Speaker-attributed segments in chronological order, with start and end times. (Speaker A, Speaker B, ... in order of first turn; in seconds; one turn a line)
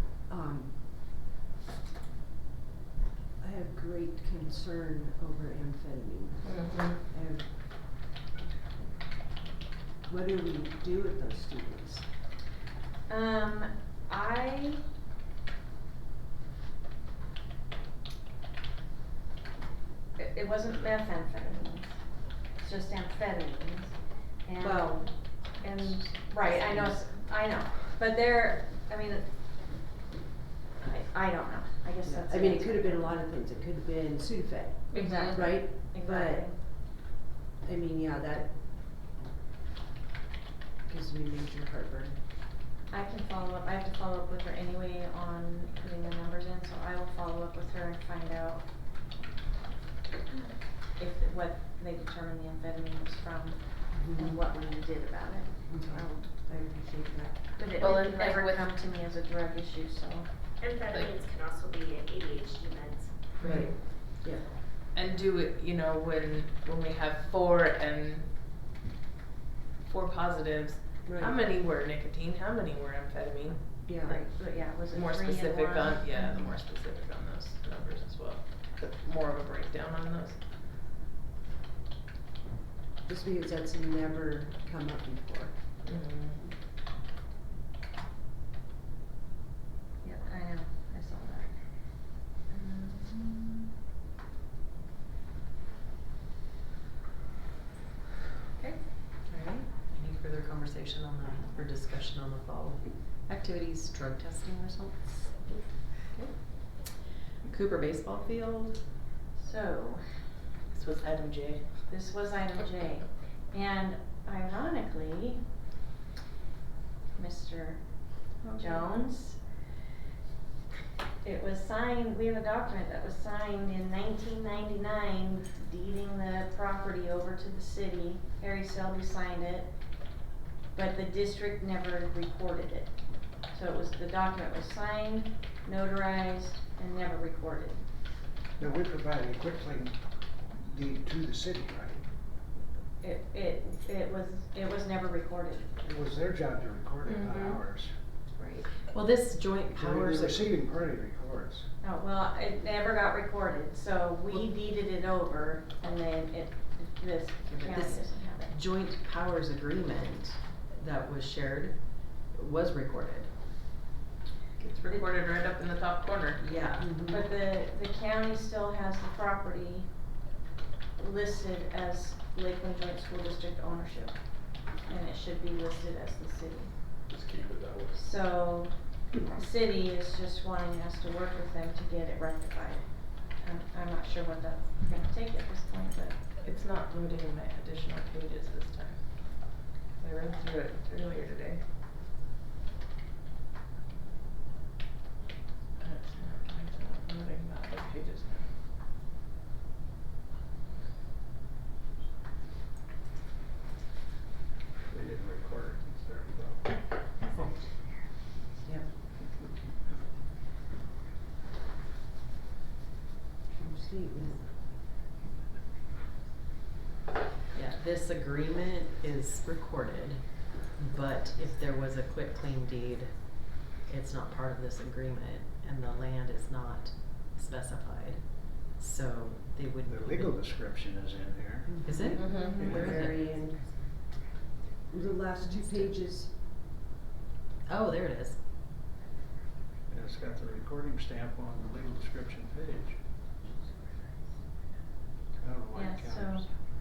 Speaker A: 0.3-1.1
Speaker A: 3.4-8.0
Speaker B: 6.4-7.0
Speaker A: 10.1-12.1
Speaker C: 13.1-14.9
Speaker C: 20.2-29.7
Speaker A: 24.6-27.0
Speaker C: 30.8-33.1
Speaker A: 32.0-37.0
Speaker B: 34.9-35.5
Speaker C: 34.9-36.6
Speaker A: 37.6-38.7
Speaker A: 40.9-42.2
Speaker C: 42.9-48.7
Speaker C: 50.8-56.2
Speaker A: 53.9-54.4
Speaker A: 55.7-57.7
Speaker C: 57.5-60.3
Speaker B: 57.8-58.6
Speaker D: 60.6-63.3
Speaker B: 60.8-61.1
Speaker A: 63.4-64.5
Speaker E: 63.4-63.7
Speaker B: 63.4-63.7
Speaker B: 64.9-68.3
Speaker B: 69.8-80.4
Speaker A: 71.0-71.4
Speaker A: 73.8-74.2
Speaker C: 74.0-76.5
Speaker A: 83.0-85.8
Speaker B: 85.8-86.5
Speaker C: 90.0-93.6
Speaker C: 98.6-98.8
Speaker B: 99.2-99.7
Speaker E: 99.8-105.5
Speaker E: 107.4-108.8
Speaker C: 109.3-110.2
Speaker B: 110.7-111.8
Speaker C: 111.9-115.4
Speaker C: 117.1-119.4
Speaker A: 118.4-118.7
Speaker C: 121.2-130.2
Speaker C: 130.7-138.0
Speaker F: 138.6-140.0
Speaker F: 140.5-142.1
Speaker C: 143.0-145.8
Speaker F: 145.8-147.9
Speaker B: 147.0-147.6
Speaker C: 148.4-148.6
Speaker E: 148.7-150.5
Speaker F: 149.8-151.7
Speaker C: 151.8-158.5
Speaker E: 157.4-163.4
Speaker B: 164.6-166.4
Speaker E: 166.4-166.9
Speaker A: 166.8-167.2
Speaker C: 167.1-170.0
Speaker C: 171.0-177.0
Speaker G: 177.1-178.0
Speaker C: 177.9-186.3
Speaker B: 186.4-191.6
Speaker B: 195.8-198.5
Speaker G: 204.9-206.8
Speaker A: 208.6-208.9
Speaker A: 213.5-214.7
Speaker E: 217.5-230.5
Speaker F: 229.8-231.8
Speaker A: 231.7-233.6
Speaker E: 231.8-233.2
Speaker C: 232.2-232.6
Speaker B: 232.3-232.7
Speaker F: 232.6-232.9
Speaker A: 234.9-236.3
Speaker E: 237.7-238.4
Speaker F: 239.9-243.0
Speaker F: 245.4-246.4
Speaker C: 245.7-246.5